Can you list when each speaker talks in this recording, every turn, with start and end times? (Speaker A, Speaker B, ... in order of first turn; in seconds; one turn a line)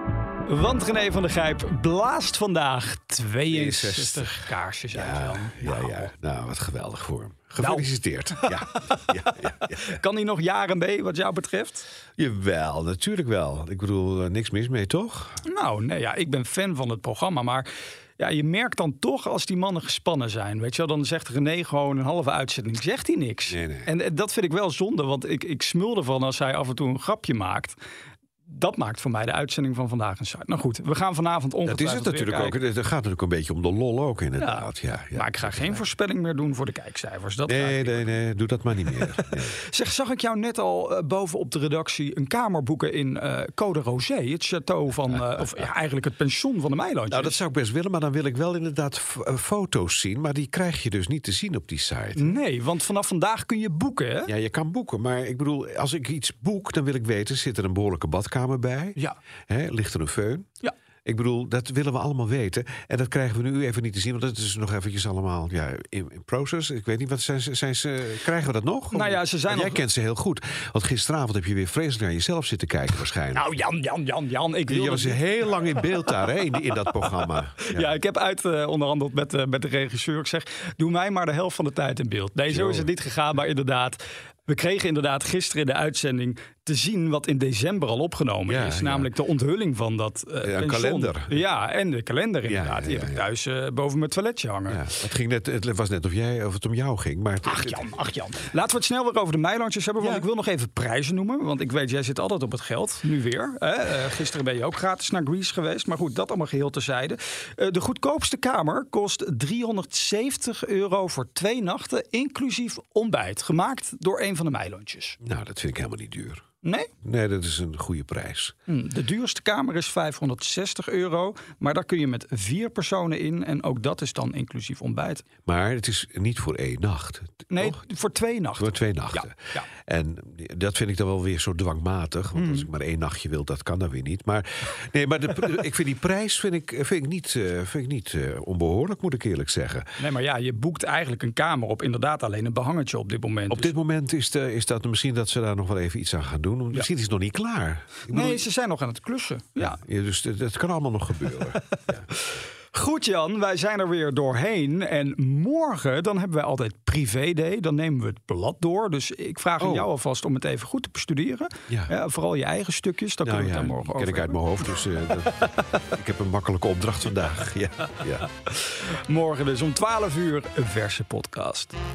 Speaker A: 0.5-6.1
Speaker B: 3.5-10.0
Speaker A: 7.6-11.9
Speaker B: 12.2-15.4
Speaker A: 15.4-27.8
Speaker B: 23.5-23.9
Speaker A: 28.5-32.6
Speaker B: 31.6-35.9
Speaker A: 34.4-38.2
Speaker B: 37.5-39.6
Speaker A: 39.2-47.4
Speaker B: 45.1-45.7
Speaker B: 47.1-52.4
Speaker A: 52.1-54.3
Speaker B: 54.3-59.0
Speaker B: 59.5-60.5
Speaker B: 61.0-73.5
Speaker A: 68.9-69.8
Speaker A: 73.3-76.2
Speaker B: 74.7-77.9
Speaker A: 77.6-94.8
Speaker B: 82.5-82.9
Speaker B: 88.5-89.1
Speaker B: 90.4-91.4
Speaker B: 92.5-93.3
Speaker B: 94.7-98.0
Speaker A: 97.4-115.2
Speaker B: 100.0-100.3
Speaker B: 115.2-116.4
Speaker A: 116.6-116.9
Speaker B: 117.0-118.5
Speaker A: 118.7-125.3
Speaker B: 125.5-127.8
Speaker A: 127.5-129.7
Speaker B: 128.6-140.0
Speaker A: 132.3-132.7
Speaker A: 140.0-143.7
Speaker B: 143.5-148.4
Speaker A: 148.1-149.8
Speaker B: 149.6-152.1
Speaker A: 151.4-151.8
Speaker A: 152.7-165.8
Speaker B: 159.6-159.9
Speaker B: 161.7-161.9
Speaker B: 163.2-168.3
Speaker A: 168.5-171.8